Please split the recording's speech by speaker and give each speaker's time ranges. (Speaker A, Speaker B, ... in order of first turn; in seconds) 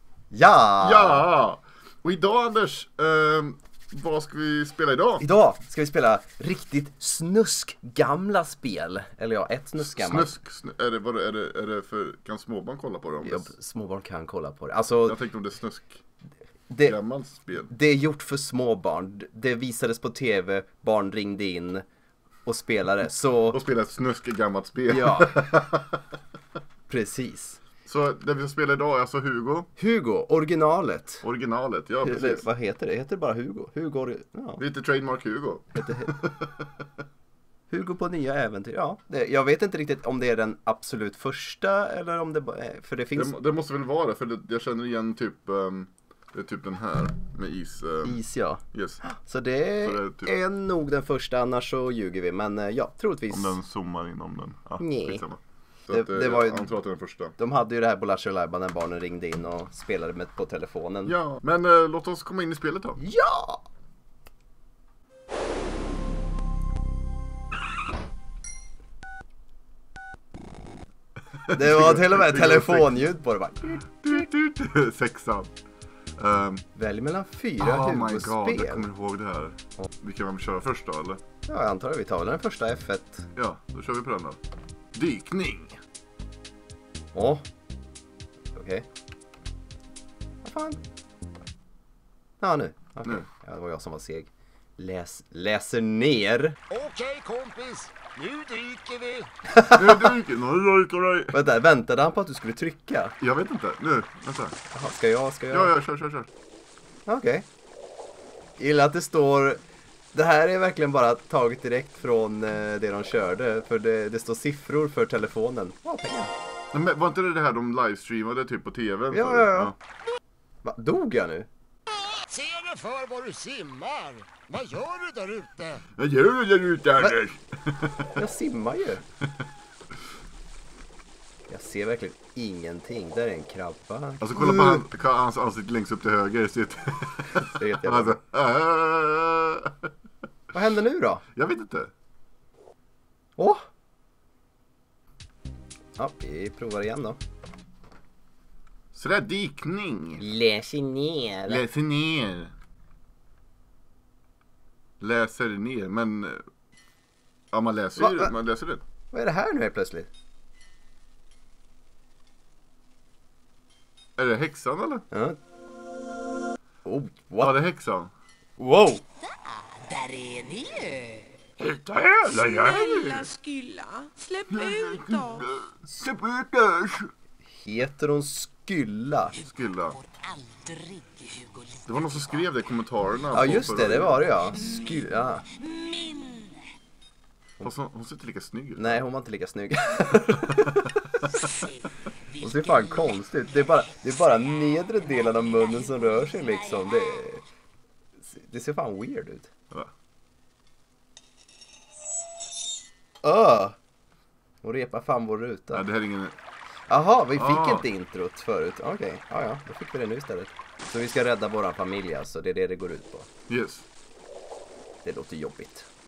Speaker A: 0.3-1.2, 5.2-10.3, 13.2-15.2, 16.7-16.9, 17.7-21.8, 22.4-23.6, 24.9-25.4, 26.9-27.6, 29.8-31.2, 32.0-34.6, 35.7-36.1, 37.7-43.4, 48.0-53.6, 54.8-55.2, 55.9-56.7, 57.4-61.2, 63.0-63.6, 71.5-74.2, 76.7-78.9, 81.5-83.3, 87.1-87.4, 88.5-88.8, 90.4-90.8, 92.4-96.6, 99.5-100.1, 101.3-103.2, 104.7-105.7, 107.1-107.5, 108.6-109.6, 110.1-116.3, 119.1-119.7, 120.6-121.5, 128.1-129.0, 131.5-134.8, 137.4-138.2, 140.5-141.2, 143.4-143.6, 146.0-147.2, 150.2-151.6, 158.0-158.3, 159.1-160.1, 165.1-165.4, 166.8-167.6, 168.6-169.0, 177.5-179.3, 183.3-185.4, 188.8-191.7, 192.3-197.4, 198.2-199.5, 203.2-203.8, 204.6-205.8, 206.9-213.3, 215.0-215.9
Speaker B: 0.8-5.2, 9.8-13.5, 15.0-16.0, 16.8-17.7, 23.5-26.0, 27.8-29.7, 31.2-32.4, 34.6-36.8, 43.1-48.2, 48.7-49.0, 49.8-50.3, 53.3-57.4, 61.0-63.0, 71.4-73.0, 74.0-75.5, 76.2-76.6, 77.6-81.2, 83.3-84.4, 84.9-85.8, 99.7-101.3, 103.2-104.5, 105.5-106.3, 116.7-119.7, 126.0-128.2, 134.2-139.9, 141.3-141.9, 148.9-150.2, 151.5-152.5, 155.0-156.4, 157.5-158.8, 164.2-165.0, 167.4-168.1, 171.6-173.3, 174.5-177.1, 179.3-180.0, 181.8-184.3, 187.6-189.0, 190.5-190.9, 205.7-206.3, 207.3-207.8, 213.5-213.8
Speaker C: 96.7-99.3, 122.0-125.8
Speaker D: 169.8-171.3, 172.3-175.5, 180.1-182.4, 185.6-186.5